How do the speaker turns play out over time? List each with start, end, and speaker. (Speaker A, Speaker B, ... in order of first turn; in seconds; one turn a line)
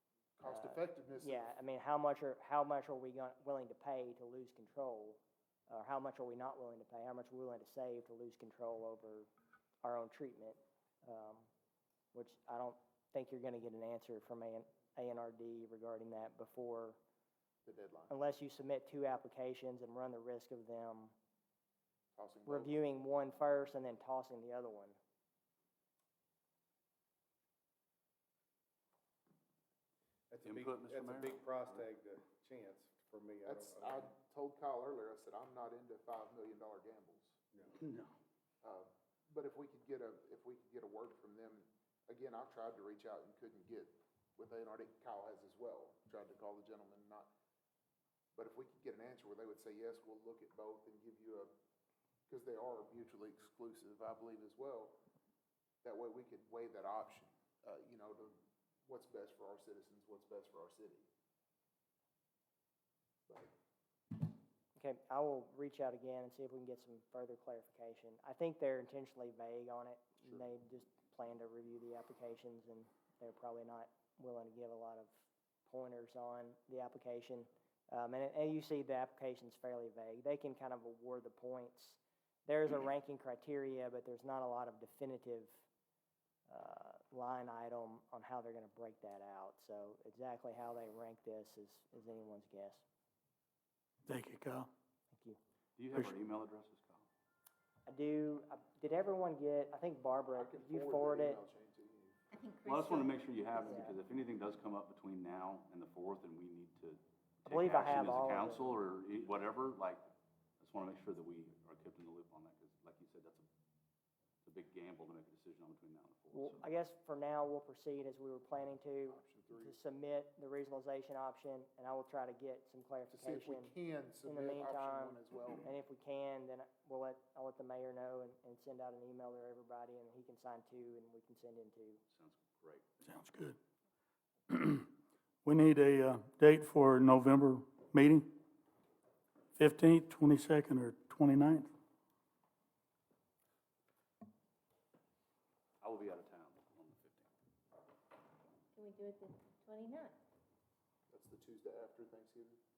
Speaker A: 0.4-1.6
Speaker B: 0.4-9.3
Speaker B: 9.8-11.5
Speaker B: 12.1-17.0
Speaker A: 17.6-18.1
Speaker B: 18.1-21.1
Speaker A: 22.1-22.7
Speaker B: 22.4-25.0
Speaker C: 30.3-34.1
Speaker D: 30.4-31.9
Speaker A: 33.5-37.4
Speaker D: 37.8-38.1
Speaker A: 38.6-47.3
Speaker A: 48.3-51.5
Speaker A: 52.3-55.0
Speaker A: 55.8-61.1
Speaker B: 64.8-85.6
Speaker B: 86.5-92.8
Speaker E: 94.0-94.7
Speaker B: 95.1-95.4
Speaker D: 95.8-97.1
Speaker B: 97.9-101.4
Speaker A: 100.3-102.2
Speaker F: 102.3-103.9
Speaker D: 102.7-113.5
Speaker B: 107.5-108.6
Speaker D: 114.4-116.7
Speaker B: 116.3-123.7
Speaker A: 119.0-119.8
Speaker A: 123.1-125.7
Speaker B: 124.2-132.0
Speaker D: 132.1-133.0
Speaker E: 133.0-133.6
Speaker E: 134.5-134.9
Speaker E: 135.4-138.3
Speaker E: 139.6-141.7
Speaker D: 145.8-147.3
Speaker F: 148.7-150.2
Speaker A: 151.1-152.6